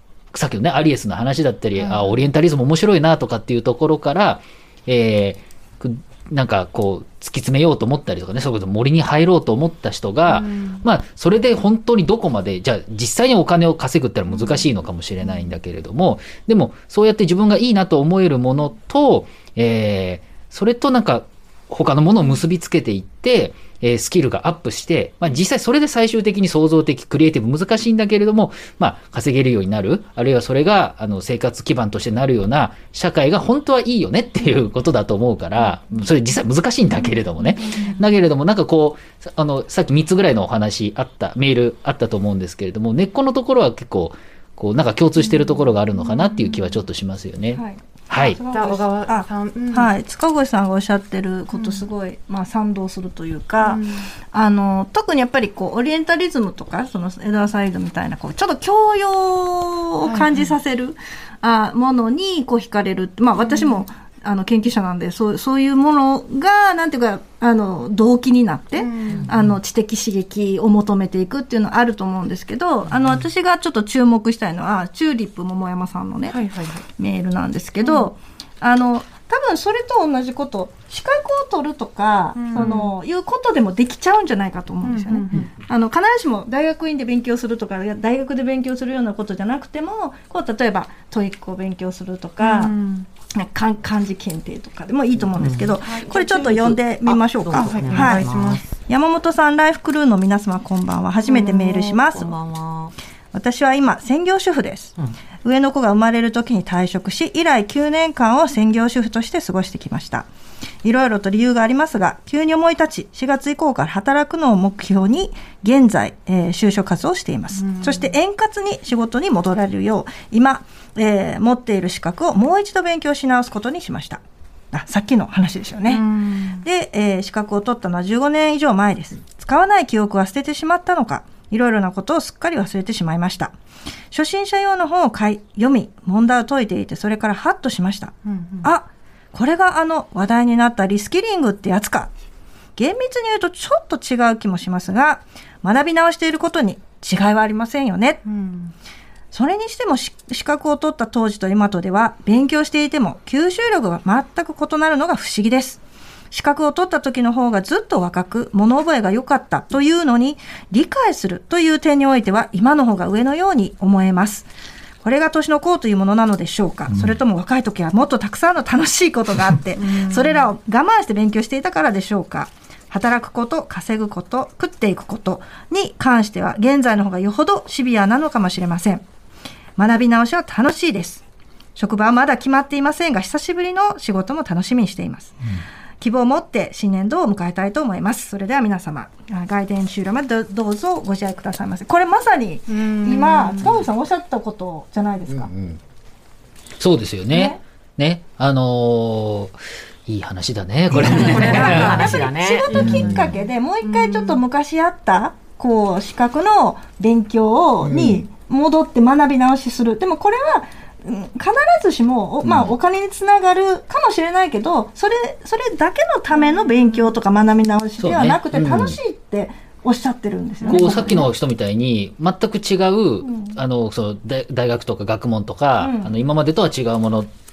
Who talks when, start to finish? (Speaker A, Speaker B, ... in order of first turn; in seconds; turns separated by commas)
Speaker A: 0.3-48.4, Speaker B: 1.8-2.2, Speaker B: 10.3-10.8, Speaker B: 14.3-14.7, Speaker B: 15.2-15.5, Speaker B: 37.4-38.0, Speaker B: 45.2-45.5, Speaker B: 46.0-46.6, Speaker C: 47.5-92.8, Speaker B: 48.5-49.9, Speaker B: 51.5-51.9, Speaker B: 53.6-54.1, Speaker B: 60.0-60.5, Speaker B: 63.4-63.8, Speaker B: 68.8-69.3, Speaker B: 76.3-76.8, Speaker B: 77.8-78.1, Speaker B: 82.3-82.9, Speaker B: 84.8-85.5, Speaker B: 92.4-93.1, Speaker C: 93.3-98.2, Speaker D: 95.2-98.7, Speaker B: 97.5-98.6, Speaker C: 98.9-102.3, Speaker D: 101.2-103.0, Speaker C: 103.3-110.3, Speaker C: 110.8-126.1, Speaker B: 117.5-118.1, Speaker B: 125.9-126.6, Speaker C: 126.6-133.6, Speaker C: 134.1-142.1, Speaker B: 138.2-138.7, Speaker C: 142.8-148.2, Speaker B: 148.2-148.7, Speaker C: 149.3-155.8, Speaker C: 156.3-164.5, Speaker C: 165.0-179.0, Speaker B: 169.8-170.5, Speaker C: 179.8-181.2, Speaker C: 181.8-185.3, Speaker C: 186.0-195.5, Speaker B: 192.7-193.8, Speaker A: 195.3-195.8, Speaker A: 196.8-202.0, Speaker C: 197.3-197.6, Speaker D: 200.9-202.9, Speaker C: 200.9-221.3, Speaker B: 201.6-201.9, Speaker B: 202.7-203.1, Speaker A: 202.7-203.3, Speaker B: 203.8-204.4, Speaker A: 207.8-208.2, Speaker A: 212.4-212.7, Speaker B: 216.3-217.1, Speaker A: 218.0-219.0, Speaker B: 220.6-221.3, Speaker A: 220.7-227.3, Speaker C: 223.2-223.6, Speaker C: 225.8-226.1